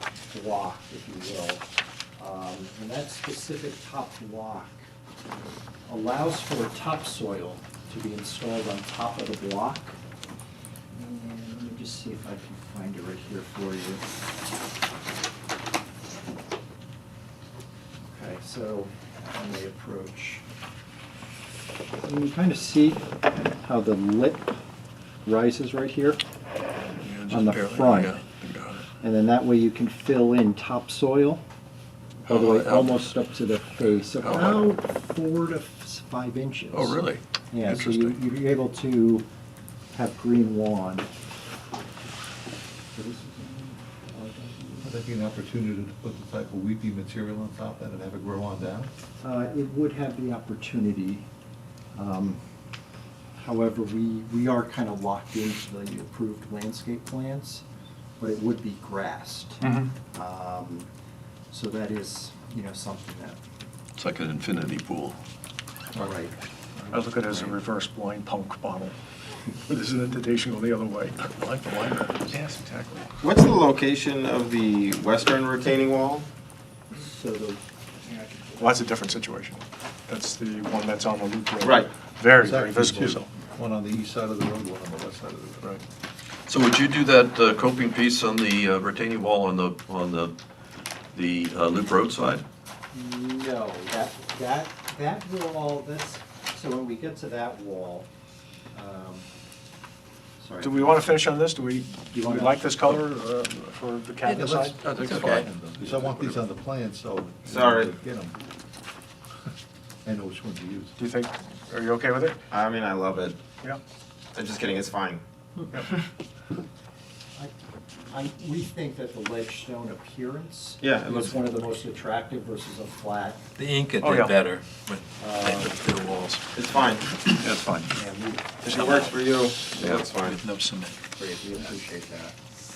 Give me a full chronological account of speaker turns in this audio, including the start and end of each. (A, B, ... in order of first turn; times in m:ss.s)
0:00.3-0:01.6 A
0:02.2-0:04.8 A
0:05.9-0:10.0 A
0:10.9-0:14.0 A
0:18.1-0:20.4 A
0:22.0-0:23.0 A
0:23.6-0:24.6 A
0:25.2-0:26.2 A
0:26.9-0:28.9 B
0:27.3-0:28.2 A
0:29.0-0:31.4 A
0:32.2-0:33.1 B
0:32.3-0:37.0 A
0:34.1-0:34.6 B
0:36.7-0:38.2 B
0:37.5-0:39.2 A
0:39.9-0:41.1 A
0:42.9-0:44.9 A
0:44.8-0:48.9 C
0:49.2-0:51.3 A
0:51.9-0:52.4 A
0:53.4-0:57.6 A
0:58.2-1:00.9 A
0:59.6-0:59.9 D
1:01.5-1:03.4 A
1:04.0-1:05.2 B
1:05.9-1:06.3 A
1:06.9-1:07.6 A
1:06.9-1:08.9 D
1:09.7-1:13.2 D
1:13.2-1:16.3 E
1:16.9-1:19.1 A
1:18.6-1:23.3 D
1:21.6-1:21.9 E
1:22.4-1:25.7 C
1:26.5-1:30.3 B
1:31.1-1:32.4 B
1:32.9-1:38.1 A
1:38.7-1:39.2 A
1:40.4-1:41.1 A
1:40.6-1:44.9 D
1:42.0-1:43.0 A
1:44.3-1:48.4 C
1:44.8-1:46.4 B
1:47.4-1:47.9 E
1:50.0-1:50.9 C
1:51.0-1:52.4 D
1:52.5-1:53.4 E
1:54.3-1:55.2 E
1:55.7-1:56.0 D
1:58.1-2:03.4 A
2:00.8-2:01.4 E
2:03.6-2:06.5 F
2:04.0-2:04.4 D
2:05.2-2:05.7 A
2:06.5-2:07.1 E
2:07.4-2:07.9 B
2:07.9-2:08.9 A
2:08.6-2:10.4 E
2:08.8-2:09.1 F
2:09.9-2:11.0 F
2:11.2-2:12.3 A